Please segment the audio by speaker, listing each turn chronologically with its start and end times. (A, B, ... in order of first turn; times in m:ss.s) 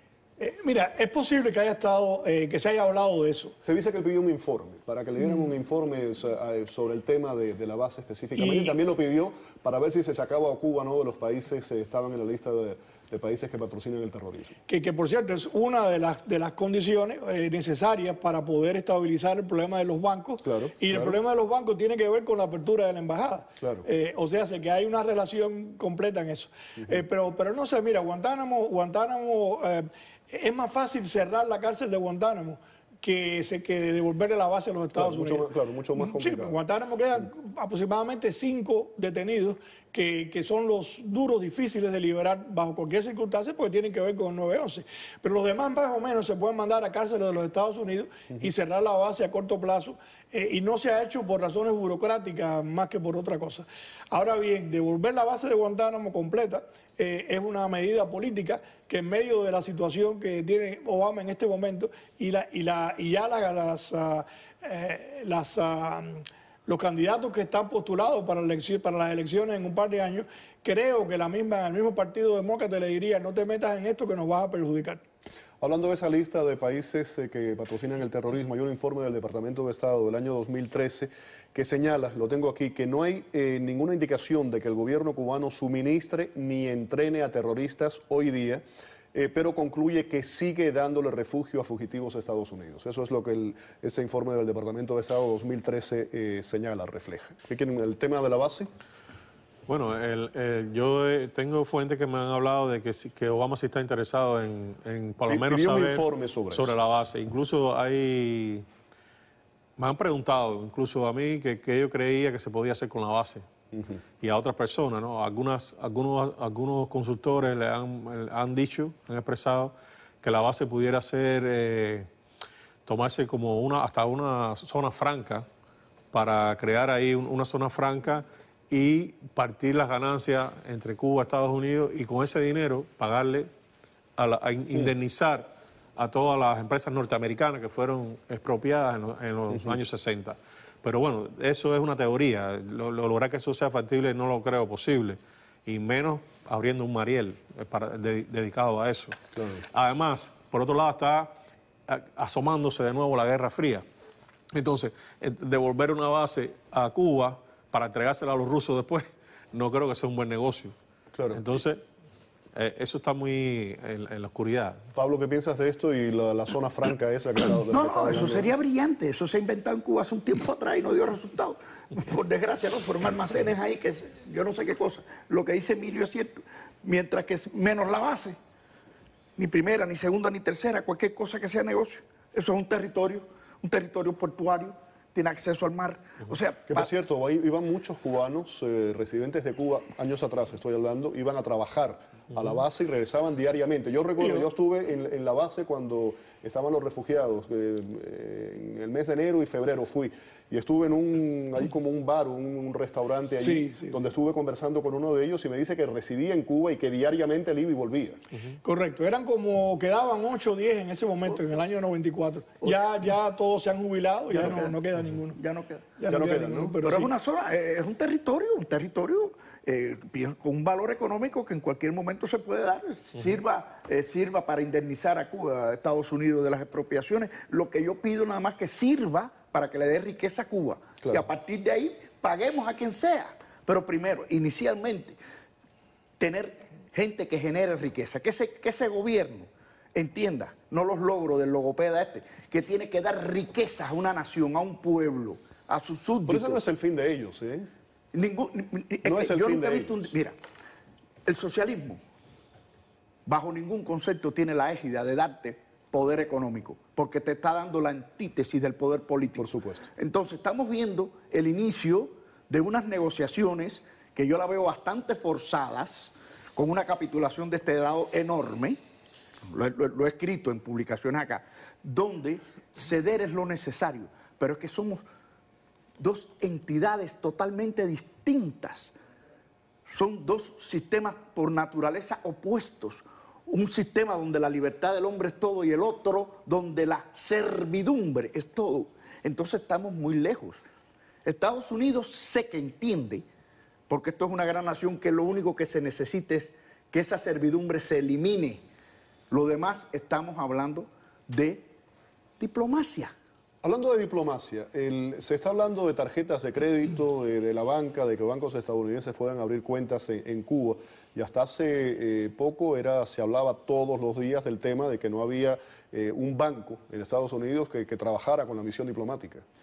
0:00.4-0:03.5 A
0:03.6-0:14.6 B
0:08.4-0:08.8 A
0:14.7-1:15.0 A
0:20.4-0:21.2 B
0:23.6-0:23.8 B
0:34.9-0:36.6 B
1:15.6-1:28.6 B
1:29.1-1:38.7 B
1:39.7-1:48.6 C
1:45.3-1:46.7 B
1:49.8-1:53.4 C
1:54.2-2:02.1 C
2:02.8-2:05.4 C
2:06.1-2:13.5 C
2:14.2-2:29.2 C
2:29.4-2:29.6 B
2:29.7-2:31.3 C
2:31.9-2:33.8 C
2:34.5-2:40.7 C
2:41.1-2:41.4 B
2:41.3-2:41.8 C
2:42.5-2:44.8 C
2:44.9-2:48.5 B
2:47.7-2:58.4 D
2:59.4-3:06.9 D
3:06.7-3:28.2 B
3:23.4-3:24.0 A
3:28.6-3:35.4 A
3:34.3-3:34.8 D
3:35.3-3:35.9 D
3:36.0-3:37.1 A
3:36.1-3:36.8 B
3:36.8-3:55.2 D
3:56.2-4:06.6 D
4:06.3-4:07.7 B
4:08.1-4:10.4 D
4:09.0-4:10.1 B
4:11.2-4:12.0 D
4:13.2-4:28.8 D
4:19.4-4:19.9 B
4:29.5-4:35.0 D
4:36.0-4:38.9 D
4:39.9-4:50.6 D
4:51.2-4:53.2 D
4:53.9-4:58.6 D
4:59.3-5:01.7 D
5:02.4-5:03.1 D
5:03.6-5:19.4 B